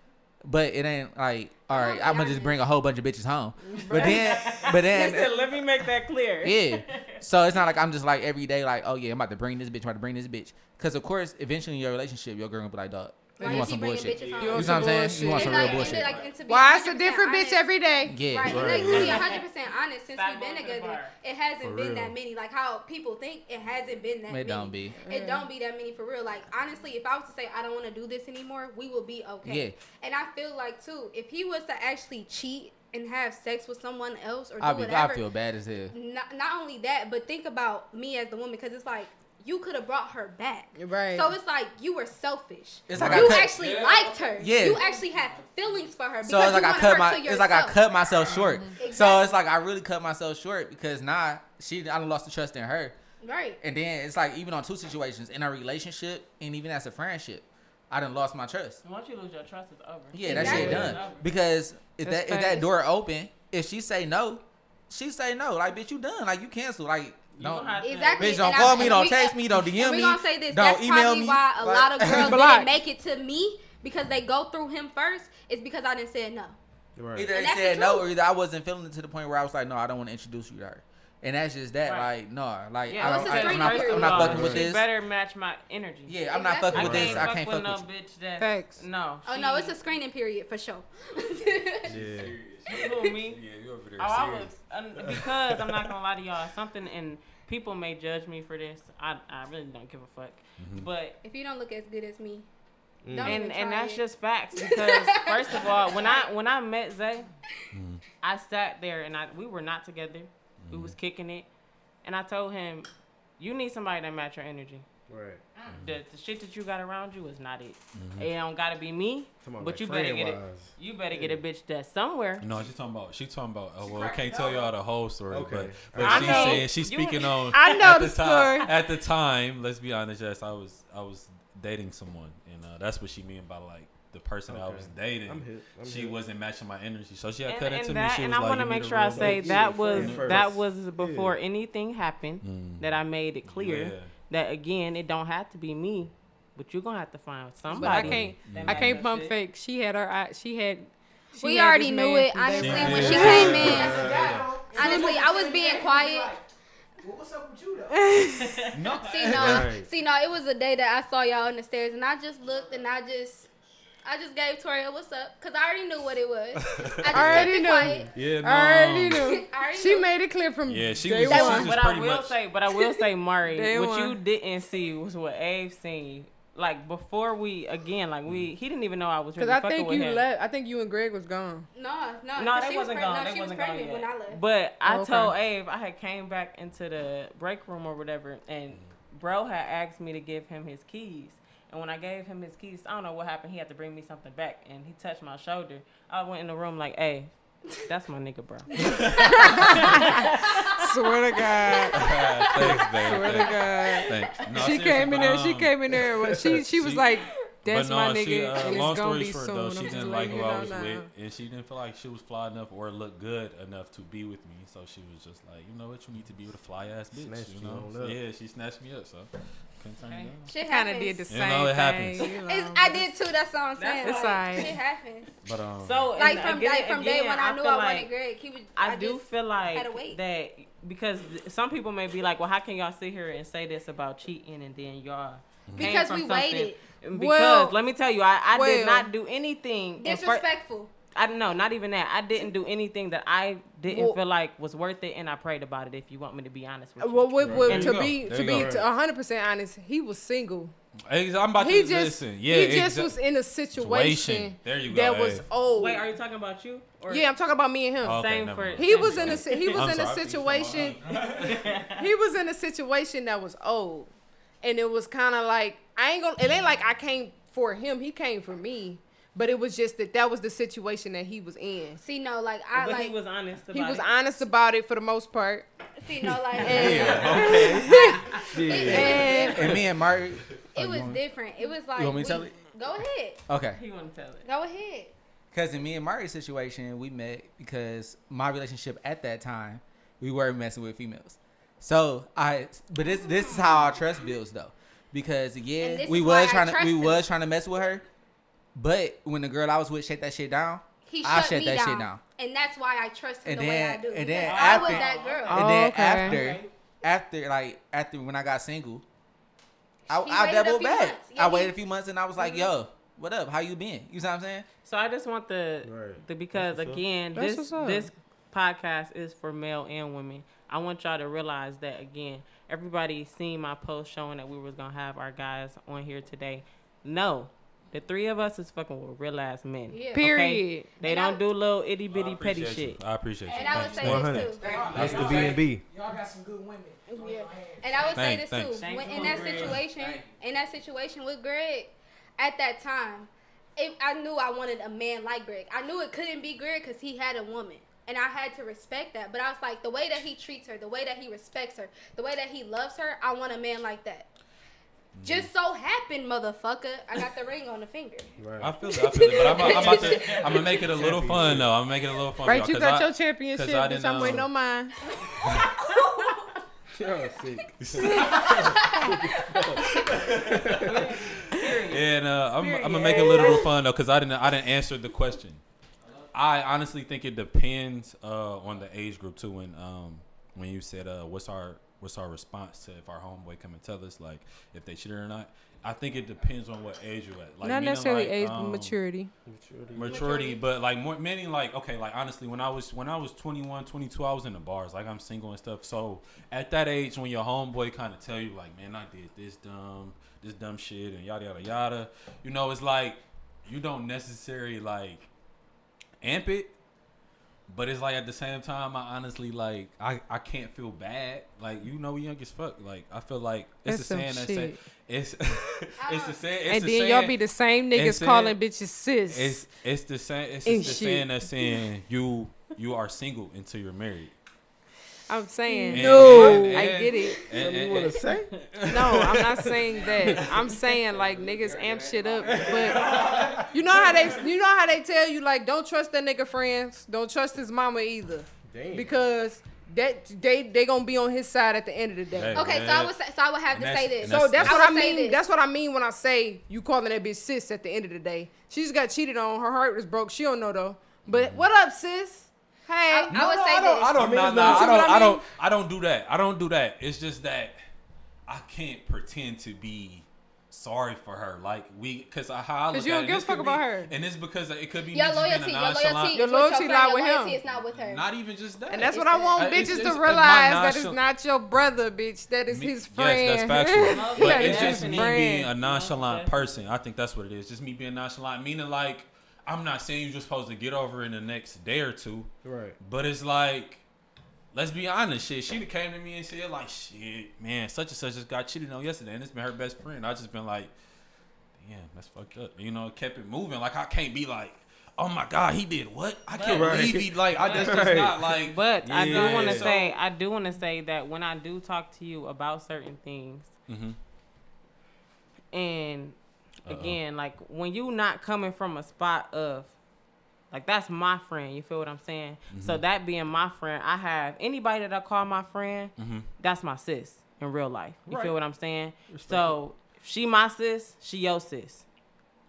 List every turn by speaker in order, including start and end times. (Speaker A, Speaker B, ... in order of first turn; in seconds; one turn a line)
Speaker A: 0.4-5.3
Speaker B: 1.7-2.6
Speaker C: 3.8-4.2
Speaker D: 3.9-7.2
Speaker A: 6.4-16.3
Speaker C: 13.4-13.7
Speaker B: 13.4-35.2
Speaker E: 14.1-16.3
Speaker C: 14.4-15.8
Speaker C: 16.4-18.1
Speaker A: 18.0-19.1
Speaker F: 18.4-19.2
Speaker D: 18.7-19.5
Speaker E: 18.9-19.2
Speaker D: 20.1-21.1
Speaker F: 21.6-22.1
Speaker A: 24.3-25.0
Speaker C: 25.0-25.5
Speaker A: 29.4-29.8
Speaker A: 34.6-35.9
Speaker B: 35.9-47.8
Speaker C: 40.8-41.3
Speaker A: 42.9-43.5
Speaker E: 43.0-44.3
Speaker F: 43.0-43.3
Speaker A: 44.3-44.9
Speaker A: 46.2-53.0
Speaker C: 48.3-48.8
Speaker B: 48.8-49.4
Speaker B: 53.2-53.6
Speaker A: 53.6-58.8
Speaker D: 58.8-61.3
Speaker A: 60.1-72.4
Speaker B: 60.2-61.0
Speaker F: 60.3-61.0
Speaker C: 62.0-62.7
Speaker D: 67.3-69.0
Speaker B: 67.8-76.6
Speaker C: 72.1-72.7
Speaker F: 77.0-77.3
Speaker A: 77.1-84.9
Speaker B: 77.3-78.1
Speaker D: 81.8-82.1
Speaker D: 82.9-86.2
Speaker B: 83.0-84.5
Speaker F: 84.1-84.7
Speaker A: 86.1-87.8
Speaker B: 86.3-87.3
Speaker D: 86.7-89.7
Speaker F: 86.7-87.3
Speaker C: 88.4-88.8
Speaker B: 89.2-91.9
Speaker E: 91.8-95.8
Speaker F: 91.9-92.3
Speaker D: 92.7-93.4
Speaker B: 92.7-93.1
Speaker D: 94.0-101.2
Speaker E: 100.6-100.9
Speaker B: 101.2-102.5
Speaker F: 103.0-103.4
Speaker B: 103.1-104.0
Speaker D: 103.2-107.3
Speaker B: 104.5-106.2
Speaker E: 107.7-108.0
Speaker D: 108.2-111.5
Speaker E: 110.6-110.9
Speaker D: 112.0-114.8
Speaker F: 115.1-115.4
Speaker D: 115.7-122.5
Speaker E: 115.7-116.0
Speaker E: 117.9-118.3
Speaker F: 119.4-121.4
Speaker E: 122.4-140.5
Speaker G: 123.8-124.7
Speaker F: 125.3-126.3
Speaker D: 126.0-127.6
Speaker C: 126.2-126.6
Speaker C: 127.5-128.7
Speaker F: 134.5-136.2
Speaker D: 137.4-149.3
Speaker F: 139.1-141.3
Speaker E: 142.4-142.9
Speaker E: 143.4-144.1
Speaker C: 147.7-153.6
Speaker E: 147.7-149.0
Speaker B: 151.4-154.2
Speaker E: 152.6-155.0
Speaker G: 152.8-156.4
Speaker F: 153.3-154.4
Speaker B: 154.7-156.3
Speaker G: 157.0-158.2
Speaker C: 157.9-158.7
Speaker D: 158.3-159.1
Speaker E: 158.7-159.7
Speaker B: 159.0-163.5
Speaker F: 159.3-159.9
Speaker G: 162.5-162.8
Speaker B: 164.0-168.1
Speaker E: 166.7-167.5
Speaker C: 167.1-171.7
Speaker E: 168.1-169.4
Speaker B: 169.1-170.1
Speaker E: 170.7-172.4
Speaker B: 171.3-171.7
Speaker D: 171.5-180.2
Speaker C: 173.5-174.2
Speaker C: 179.4-181.7
Speaker B: 181.7-184.4
Speaker D: 182.3-200.3
Speaker C: 184.8-185.3
Speaker E: 198.8-199.7
Speaker C: 199.2-200.3
Speaker C: 200.8-202.1
Speaker B: 201.5-202.9
Speaker E: 201.9-207.1
Speaker C: 202.8-211.1
Speaker E: 207.6-220.5
Speaker F: 217.1-218.2
Speaker D: 220.0-220.3
Speaker B: 220.5-221.2
Speaker C: 220.6-223.1
Speaker E: 221.3-222.3
Speaker B: 222.3-225.3
Speaker D: 223.8-224.7
Speaker C: 224.0-224.7
Speaker E: 225.4-226.1
Speaker D: 225.8-228.1
Speaker B: 226.2-230.2
Speaker D: 228.8-240.5
Speaker E: 235.7-235.9
Speaker B: 235.8-236.8
Speaker C: 237.1-237.7
Speaker C: 238.5-239.1
Speaker B: 240.0-240.9
Speaker D: 241.1-248.0
Speaker C: 243.9-244.2
Speaker C: 247.0-250.7
Speaker F: 247.4-248.8
Speaker E: 247.7-248.8
Speaker E: 251.1-253.2
Speaker C: 251.6-256.1
Speaker E: 253.8-255.4
Speaker D: 255.7-257.3
Speaker C: 257.1-258.2
Speaker D: 258.0-259.9
Speaker E: 258.0-261.5
Speaker C: 258.7-261.1
Speaker D: 261.3-262.1
Speaker C: 261.9-264.1
Speaker C: 264.6-272.0
Speaker B: 272.0-273.1
Speaker D: 272.7-274.1
Speaker C: 273.7-275.7
Speaker B: 275.9-279.9
Speaker C: 276.6-278.2
Speaker E: 276.7-277.8
Speaker F: 278.4-279.3
Speaker C: 278.8-279.7
Speaker A: 279.4-281.2
Speaker B: 280.7-283.4
Speaker E: 282.0-282.5
Speaker A: 282.0-282.5
Speaker A: 283.5-283.8
Speaker D: 283.7-284.4
Speaker B: 284.4-285.1
Speaker A: 285.5-298.0
Speaker B: 293.2-293.6
Speaker B: 295.8-297.2
Speaker A: 298.7-302.2
Speaker B: 301.0-305.7
Speaker A: 303.4-309.0
Speaker D: 304.4-305.6
Speaker C: 305.5-306.4
Speaker D: 306.2-306.7
Speaker B: 310.1-311.8
Speaker A: 310.1-314.6
Speaker B: 312.4-312.7
Speaker D: 314.8-333.0
Speaker F: 315.8-317.0
Speaker C: 317.3-318.1
Speaker B: 329.9-330.4
Speaker C: 330.1-330.9
Speaker B: 330.9-331.4
Speaker E: 332.1-335.6
Speaker B: 333.5-335.2
Speaker G: 333.6-333.9
Speaker F: 334.0-335.8
Speaker G: 334.6-338.2
Speaker A: 334.6-335.6
Speaker B: 337.1-354.3
Speaker E: 338.1-339.8
Speaker D: 338.8-339.8
Speaker A: 339.2-340.3
Speaker E: 355.1-355.5
Speaker B: 355.2-358.3
Speaker F: 358.4-358.7
Speaker E: 358.6-364.5
Speaker B: 358.9-360.8
Speaker D: 359.6-360.0
Speaker F: 360.9-361.7
Speaker C: 362.4-364.9
Speaker B: 365.3-366.6
Speaker F: 366.9-371.0
Speaker E: 367.8-368.8
Speaker B: 368.0-369.5
Speaker E: 369.8-375.6
Speaker D: 370.8-372.0
Speaker C: 372.6-373.6
Speaker E: 376.3-388.9
Speaker C: 387.6-389.3
Speaker F: 389.4-390.3
Speaker E: 389.9-405.3
Speaker B: 390.1-390.6
Speaker E: 406.2-406.7
Speaker E: 407.7-417.4
Speaker C: 413.9-414.8
Speaker B: 416.0-416.4
Speaker C: 416.7-419.6
Speaker E: 417.9-418.6
Speaker E: 419.3-424.3
Speaker C: 420.6-421.8
Speaker C: 425.3-427.5
Speaker E: 425.9-430.8
Speaker F: 426.1-426.7
Speaker F: 427.5-428.5
Speaker C: 428.8-433.1
Speaker A: 431.0-433.6
Speaker E: 432.4-434.4
Speaker C: 433.7-442.6
Speaker F: 438.7-439.2
Speaker E: 442.3-443.1
Speaker B: 442.5-445.4
Speaker E: 443.7-445.0
Speaker C: 444.2-453.4
Speaker E: 451.2-451.7
Speaker B: 453.1-455.1
Speaker E: 453.3-457.8
Speaker F: 454.1-455.0
Speaker C: 454.5-455.4
Speaker E: 458.5-466.4
Speaker C: 462.9-464.1
Speaker B: 465.1-468.2
Speaker C: 466.3-467.6
Speaker E: 467.9-471.2
Speaker C: 468.9-475.7
Speaker B: 469.1-469.6
Speaker E: 472.7-484.0
Speaker D: 474.1-476.8
Speaker F: 482.6-483.0
Speaker E: 484.7-490.9
Speaker E: 491.8-500.2
Speaker D: 496.5-497.0
Speaker F: 496.7-498.5
Speaker D: 497.6-498.1
Speaker D: 498.7-503.7
Speaker F: 499.0-499.9
Speaker E: 503.9-504.2
Speaker D: 505.7-509.9
Speaker E: 506.9-507.2
Speaker D: 510.7-522.1
Speaker E: 512.7-513.0
Speaker E: 516.2-516.5
Speaker F: 519.3-519.8